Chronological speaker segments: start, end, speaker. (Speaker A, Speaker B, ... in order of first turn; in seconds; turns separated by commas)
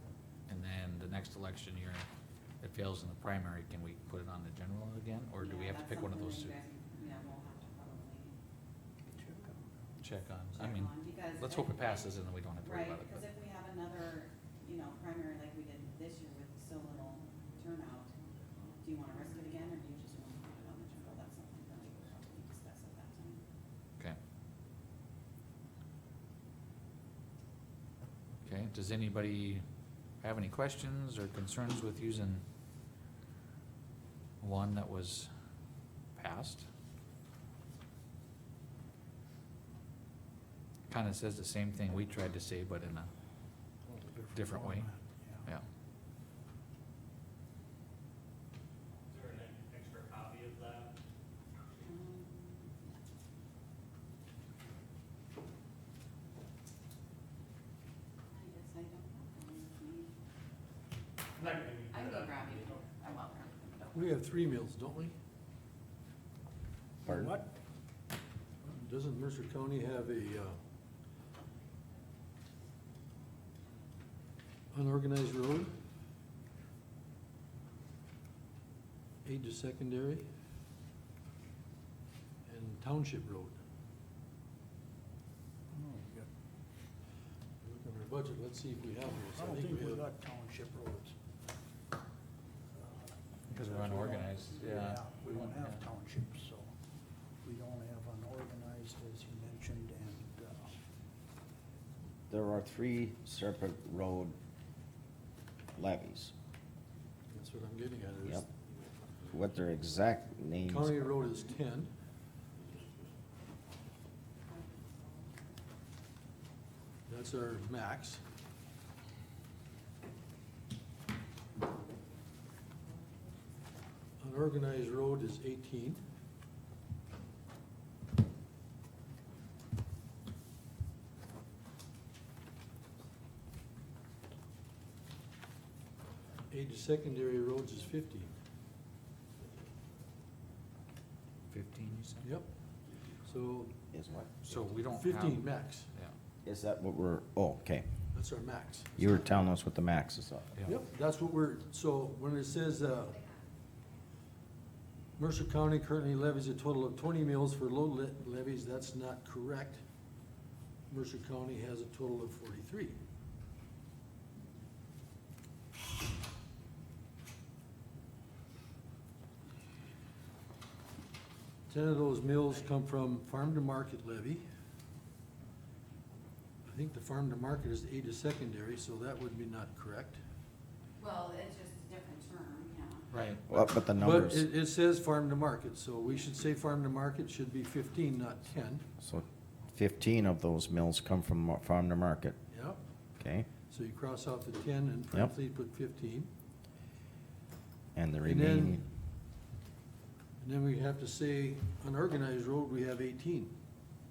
Speaker A: 0.5-2.1, Speaker A: 2.6-6.6, Speaker B: 5.4-8.3, Speaker C: 9.1-9.6, Speaker A: 10.0-13.3, Speaker B: 10.6-12.0, Speaker B: 12.6-18.1, Speaker B: 18.8-23.4, Speaker A: 28.4-29.6, Speaker A: 30.2-32.4, Speaker A: 34.4-35.3, Speaker A: 36.2-36.6, Speaker A: 40.9-43.1, Speaker C: 44.0-45.5, Speaker A: 44.3-44.9, Speaker D: 49.1-50.9, Speaker B: 51.8-53.0, Speaker B: 58.3-60.1, Speaker D: 61.4-62.9, Speaker B: 61.9-64.2, Speaker E: 63.9-65.1, Speaker F: 67.0-67.4, Speaker C: 67.0-67.5, Speaker E: 68.6-70.6, Speaker E: 74.7-75.7, Speaker E: 79.2-80.3, Speaker E: 82.5-83.6, Speaker C: 85.7-86.3, Speaker E: 87.6-90.1, Speaker C: 89.3-91.2, Speaker A: 93.5-95.8, Speaker C: 93.5-96.7, Speaker C: 97.4-100.7, Speaker F: 102.3-104.4, Speaker F: 105.8-106.3, Speaker E: 107.3-108.5, Speaker F: 109.3-111.0, Speaker E: 110.6-111.9, Speaker E: 117.1-118.2, Speaker E: 124.2-126.0, Speaker E: 136.5-138.3, Speaker A: 141.5-142.3, Speaker E: 142.2-142.5, Speaker E: 143.2-143.8, Speaker F: 143.9-144.3, Speaker A: 144.4-146.1, Speaker E: 144.8-145.9, Speaker F: 146.4-147.9, Speaker E: 148.1-149.2, Speaker F: 149.0-150.6, Speaker E: 150.7-153.2, Speaker E: 155.2-159.8, Speaker E: 160.9-163.0, Speaker E: 171.7-174.4, Speaker E: 176.7-180.2, Speaker B: 181.0-183.1, Speaker A: 183.1-183.4, Speaker F: 183.5-184.4, Speaker E: 183.5-188.9, Speaker F: 189.0-192.4, Speaker E: 192.5-192.8, Speaker F: 193.2-193.5, Speaker E: 193.7-196.3, Speaker F: 197.9-198.9, Speaker E: 198.2-198.8, Speaker E: 200.4-203.5